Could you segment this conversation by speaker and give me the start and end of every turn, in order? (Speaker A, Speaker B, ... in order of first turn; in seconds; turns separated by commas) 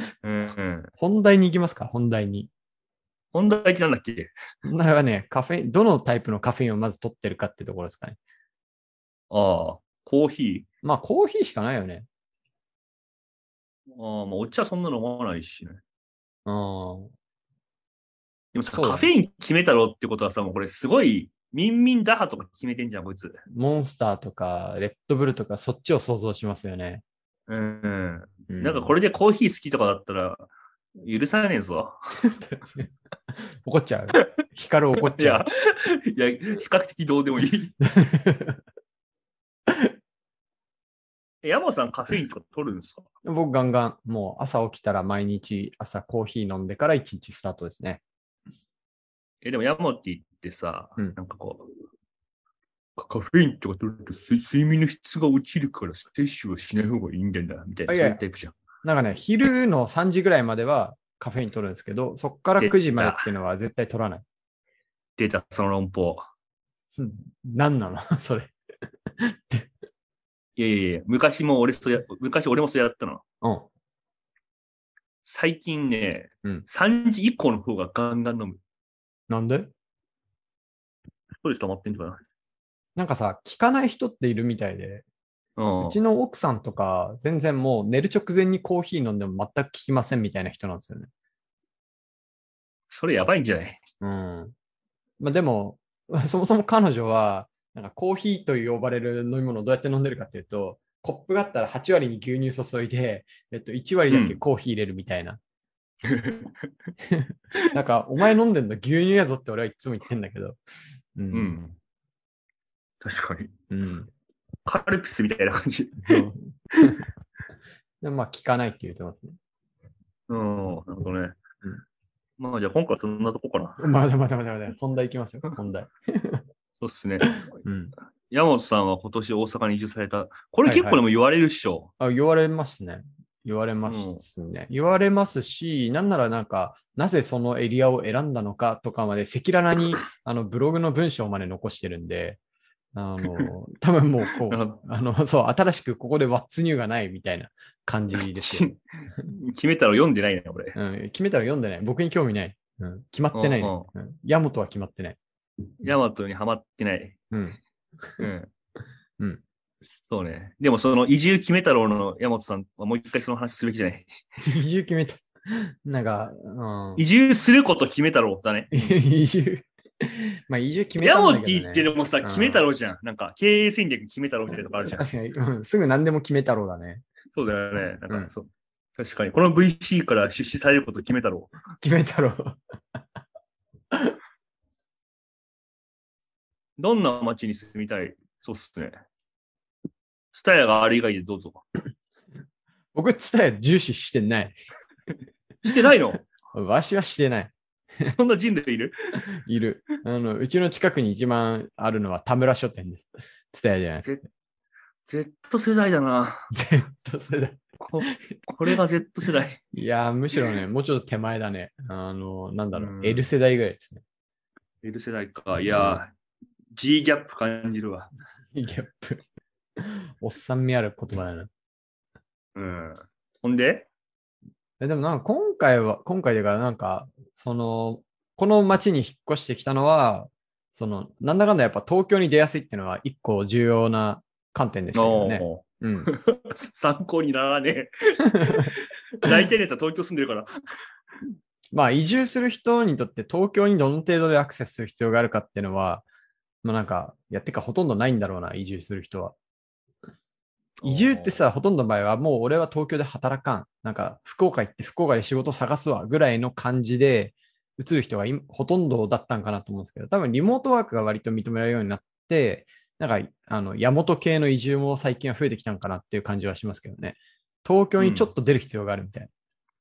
Speaker A: 0.2-0.9, Speaker B: 1.0-2.5, Speaker A: 3.3-4.3, Speaker B: 4.6-8.2, Speaker A: 9.3-10.7, Speaker B: 10.8-12.1, Speaker A: 13.9-15.8, Speaker B: 16.4-17.1, Speaker A: 18.5-23.4, Speaker B: 18.7-19.1, Speaker B: 23.5-27.0, Speaker A: 27.5-32.2, Speaker B: 28.5-28.9, Speaker B: 32.2-32.9, Speaker B: 33.6-35.4, Speaker A: 35.1-37.7, Speaker B: 37.8-38.6, Speaker A: 41.4-43.1, Speaker B: 43.2-48.0, Speaker A: 49.4-51.7, Speaker A: 53.0-58.5, Speaker B: 57.9-58.2, Speaker B: 58.8-64.2, Speaker A: 62.6-63.3, Speaker A: 65.2-66.3, Speaker B: 67.0-68.5, Speaker B: 69.2-69.7, Speaker A: 70.5-73.2, Speaker B: 73.4-73.7, Speaker A: 75.2-78.6, Speaker B: 79.3-79.7, Speaker A: 81.4-82.2, Speaker B: 83.0-85.0, Speaker A: 85.6-86.0, Speaker B: 85.8-91.1, Speaker A: 92.9-93.8, Speaker B: 94.0-94.5, Speaker B: 95.2-105.4, Speaker A: 104.1-104.4, Speaker A: 106.1-106.7, Speaker B: 107.0-110.6, Speaker B: 111.1-111.5, Speaker A: 111.3-111.8, Speaker A: 113.0-113.5, Speaker B: 113.7-114.1, Speaker A: 114.7-116.2, Speaker B: 116.0-117.0, Speaker B: 118.0-119.3, Speaker A: 120.3-121.4, Speaker A: 122.4-123.9, Speaker B: 123.8-126.4, Speaker A: 126.8-127.5, Speaker B: 127.6-127.9, Speaker A: 128.3-131.9, Speaker B: 130.7-131.0, Speaker B: 132.0-142.4, Speaker A: 133.8-134.2, Speaker B: 142.9-148.7, Speaker A: 144.5-144.8, Speaker A: 148.2-150.8, Speaker B: 150.7-155.2, Speaker A: 153.3-153.9, Speaker A: 155.8-157.2, Speaker B: 157.3-158.3, Speaker A: 158.2-158.5, Speaker A: 160.1-164.1, Speaker B: 164.4-167.0, Speaker A: 167.0-168.9, Speaker B: 168.7-172.7, Speaker A: 171.0-175.0, Speaker B: 174.6-177.0, Speaker A: 177.3-181.5, Speaker B: 181.8-182.6, Speaker A: 186.8-188.9, Speaker A: 190.3-191.6, Speaker B: 192.9-194.6, Speaker A: 195.6-196.2, Speaker B: 196.5-198.1, Speaker A: 198.0-198.9, Speaker B: 199.3-204.1, Speaker A: 205.1-206.5, Speaker B: 206.5-208.8, Speaker A: 207.8-209.6, Speaker B: 209.7-214.0, Speaker A: 212.7-213.3, Speaker A: 214.8-216.1, Speaker B: 215.6-216.0, Speaker A: 216.7-218.1, Speaker B: 218.5-219.2, Speaker B: 219.8-221.5, Speaker A: 222.5-223.9, Speaker B: 224.8-236.1, Speaker A: 234.9-240.5, Speaker B: 241.7-246.1, Speaker B: 246.6-249.4, Speaker A: 250.8-251.4, Speaker B: 250.8-269.3, Speaker A: 268.0-268.3